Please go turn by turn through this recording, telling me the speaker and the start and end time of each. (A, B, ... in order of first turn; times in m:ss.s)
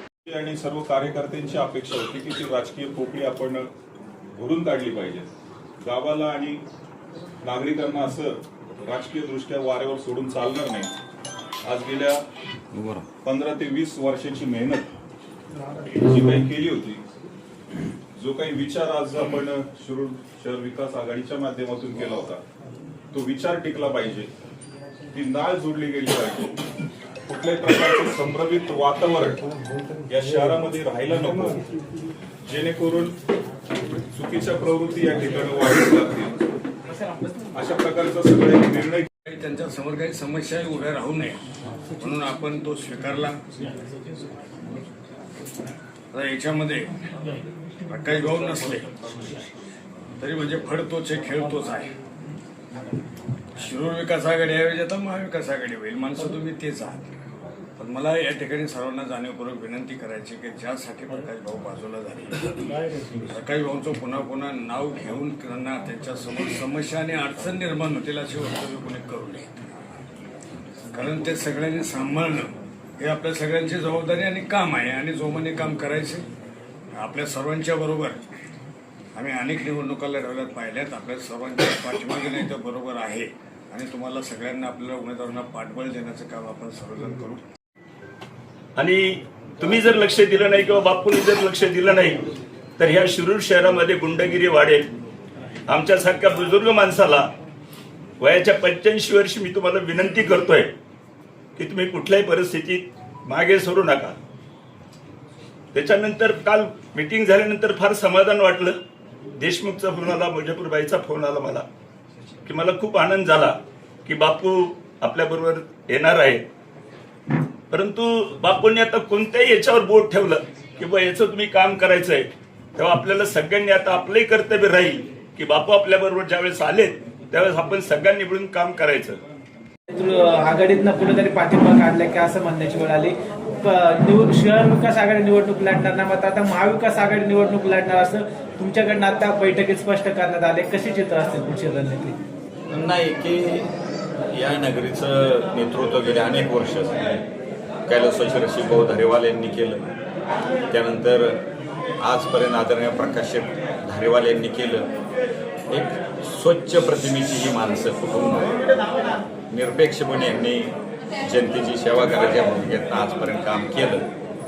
0:00.2-0:03.7 A
0:04.3-0:05.3 A
0:05.8-0:06.6 A
0:07.4-0:10.9 A
0:11.6-0:12.2 A
0:12.7-0:13.0 B
0:13.2-0:14.9 A
0:15.9-0:17.0 A
0:18.2-0:22.4 A
0:23.1-0:24.3 A
0:25.1-0:26.5 A
0:27.2-0:29.4 A
0:30.1-0:31.6 A
0:32.5-0:33.1 A
0:34.1-0:36.4 A
0:37.5-0:39.1 A
0:39.2-0:41.4 B
0:42.0-0:44.3 B
0:46.1-0:47.1 B
0:47.9-0:49.5 B
0:50.2-0:51.9 B
0:53.6-0:57.2 B
0:57.8-1:09.8 B
1:10.9-1:16.3 B
1:16.9-1:18.2 B
1:19.1-1:27.5 B
1:28.8-1:32.2 C
1:32.8-1:34.9 C
1:35.7-1:37.3 C
1:38.2-1:40.7 C
1:41.6-1:44.2 C
1:45.7-1:48.8 C
1:49.4-1:51.6 C
1:52.4-1:56.4 C
1:57.7-2:09.2 C
2:09.9-2:22.2 D
2:22.7-2:23.7 E
2:24.3-2:27.2 E
2:27.8-2:29.9 E
2:30.7-2:31.4 E
2:32.0-2:34.9 E
2:35.7-2:38.5 E
2:39.5-2:44.0 E